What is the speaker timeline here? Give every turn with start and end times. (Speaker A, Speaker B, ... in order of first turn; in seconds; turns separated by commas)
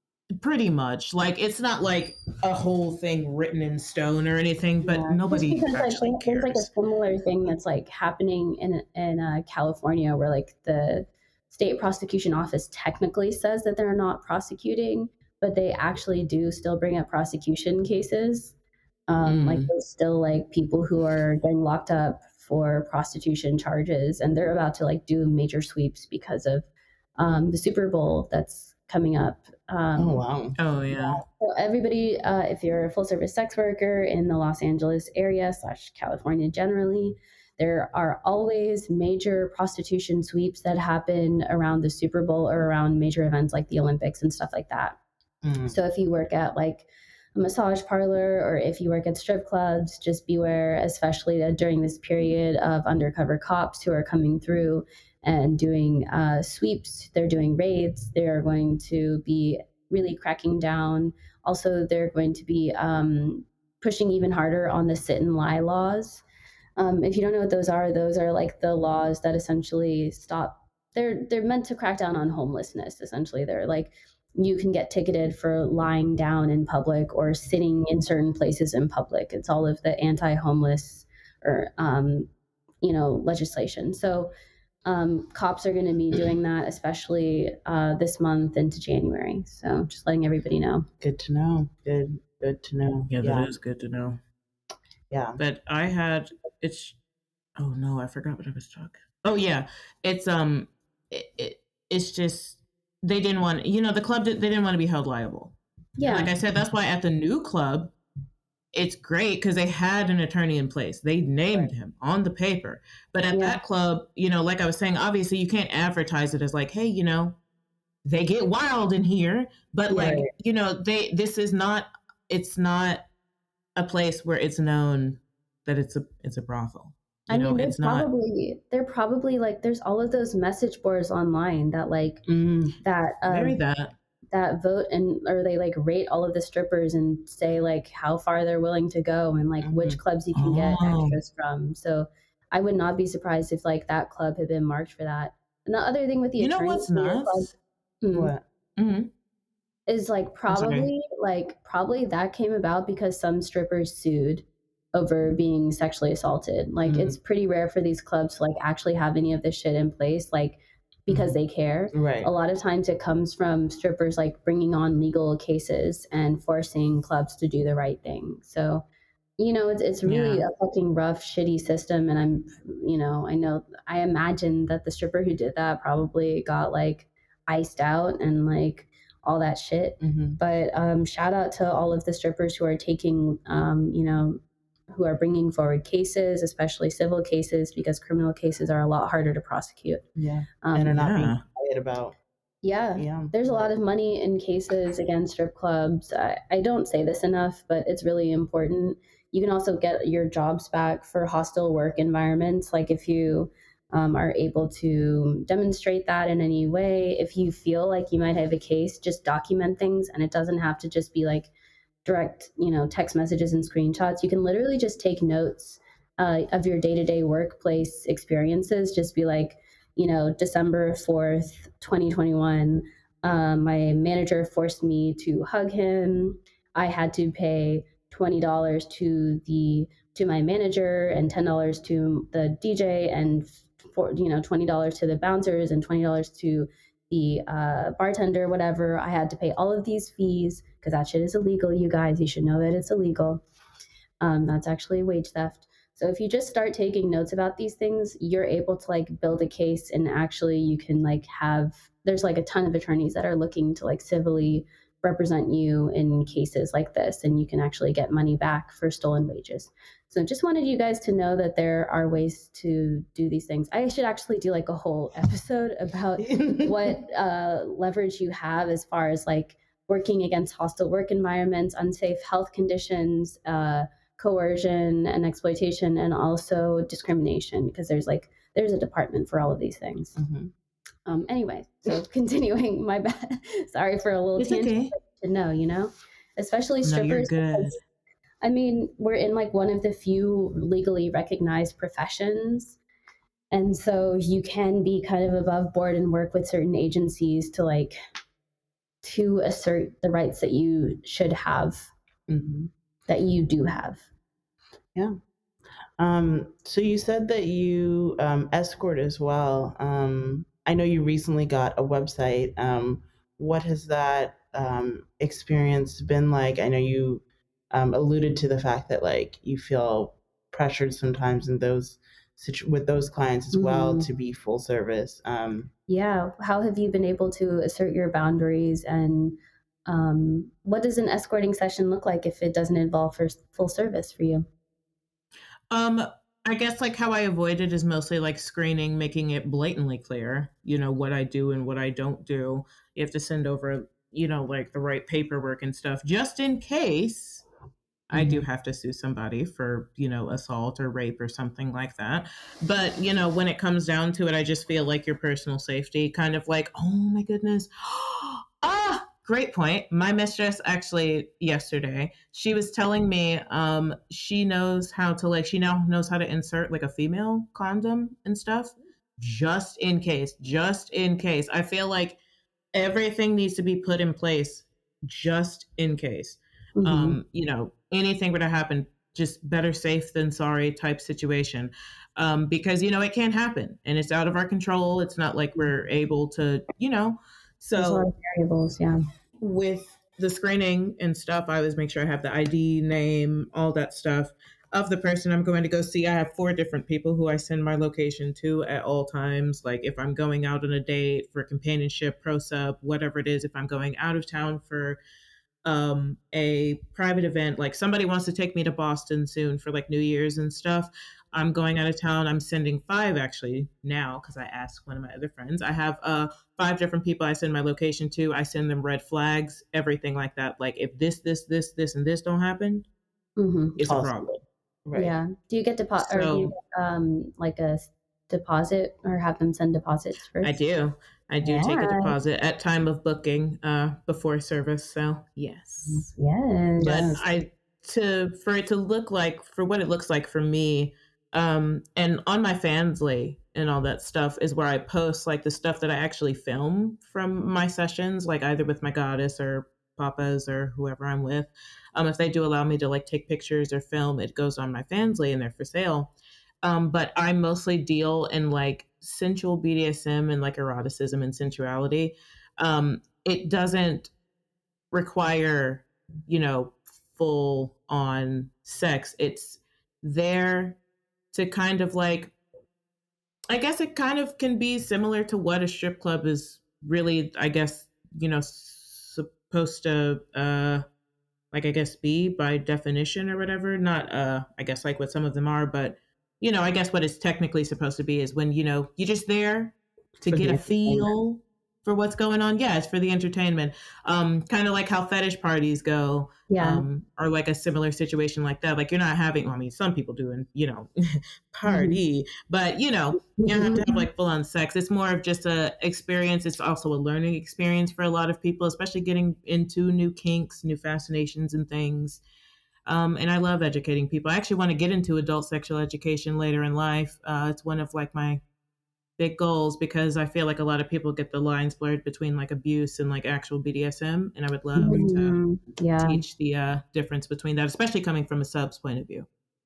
Speaker A: 0.3-6.7, Speaker B: 4.8-18.6, Speaker B: 19.1-26.7, Speaker A: 19.2-19.7, Speaker B: 27.2-30.2, Speaker C: 29.9-30.6, Speaker A: 30.6-31.2, Speaker B: 30.9-45.0, Speaker C: 45.4-45.8, Speaker B: 45.7-66.2, Speaker B: 66.8-82.3, Speaker B: 82.8-84.3, Speaker B: 84.9-90.9, Speaker C: 91.0-93.5, Speaker A: 93.1-94.2, Speaker C: 95.1-95.4, Speaker A: 95.4-97.0, Speaker A: 97.6-107.9, Speaker B: 106.0-106.3, Speaker A: 108.7-117.4, Speaker B: 113.3-113.6, Speaker A: 118.0-123.0, Speaker B: 119.9-120.3, Speaker A: 123.8-128.1, Speaker B: 127.3-132.2, Speaker C: 132.2-132.8, Speaker B: 132.8-133.6, Speaker A: 133.3-133.9, Speaker B: 134.3-147.5, Speaker C: 139.6-140.0, Speaker A: 140.3-141.2, Speaker A: 146.4-147.5, Speaker B: 148.0-148.3, Speaker C: 148.1-148.4, Speaker A: 148.8-149.1, Speaker B: 149.9-168.8, Speaker A: 150.5-150.9, Speaker C: 156.8-157.2, Speaker C: 161.1-161.4, Speaker C: 161.9-162.3, Speaker B: 169.4-184.4, Speaker A: 170.1-170.4, Speaker C: 180.0-180.4, Speaker B: 184.9-190.1, Speaker C: 190.2-192.2, Speaker B: 190.6-191.0, Speaker A: 190.9-191.4, Speaker B: 192.6-211.5, Speaker C: 192.9-193.7, Speaker B: 212.1-243.4, Speaker B: 244.2-280.1, Speaker C: 266.2-266.9, Speaker C: 280.1-280.5, Speaker B: 281.1-287.8, Speaker A: 284.4-284.9, Speaker A: 286.8-287.8, Speaker B: 288.4-292.8, Speaker B: 293.5-297.9, Speaker B: 299.0-301.9, Speaker C: 302.3-302.7, Speaker B: 303.1-304.0, Speaker C: 306.0-325.7, Speaker B: 323.5-324.1, Speaker B: 325.9-334.5, Speaker A: 335.7-347.4, Speaker A: 348.1-372.2, Speaker C: 348.1-348.4, Speaker A: 372.7-388.1, Speaker B: 376.8-377.2, Speaker B: 387.8-389.0, Speaker A: 389.4-405.0, Speaker A: 405.6-422.9, Speaker B: 423.4-423.8, Speaker A: 423.8-424.4, Speaker C: 423.8-425.2, Speaker B: 424.9-430.6, Speaker A: 426.0-426.5, Speaker A: 430.4-436.1, Speaker B: 431.4-432.1, Speaker B: 436.1-437.2, Speaker A: 436.8-464.1, Speaker A: 464.9-470.8, Speaker A: 471.3-472.3, Speaker A: 473.5-480.8, Speaker A: 481.5-500.9, Speaker C: 490.3-491.1, Speaker B: 496.5-496.8, Speaker A: 501.5-512.2, Speaker B: 501.7-502.0, Speaker B: 503.4-504.1, Speaker A: 512.9-518.4, Speaker A: 519.2-525.4, Speaker C: 524.8-525.1, Speaker B: 524.8-526.2, Speaker A: 526.0-529.3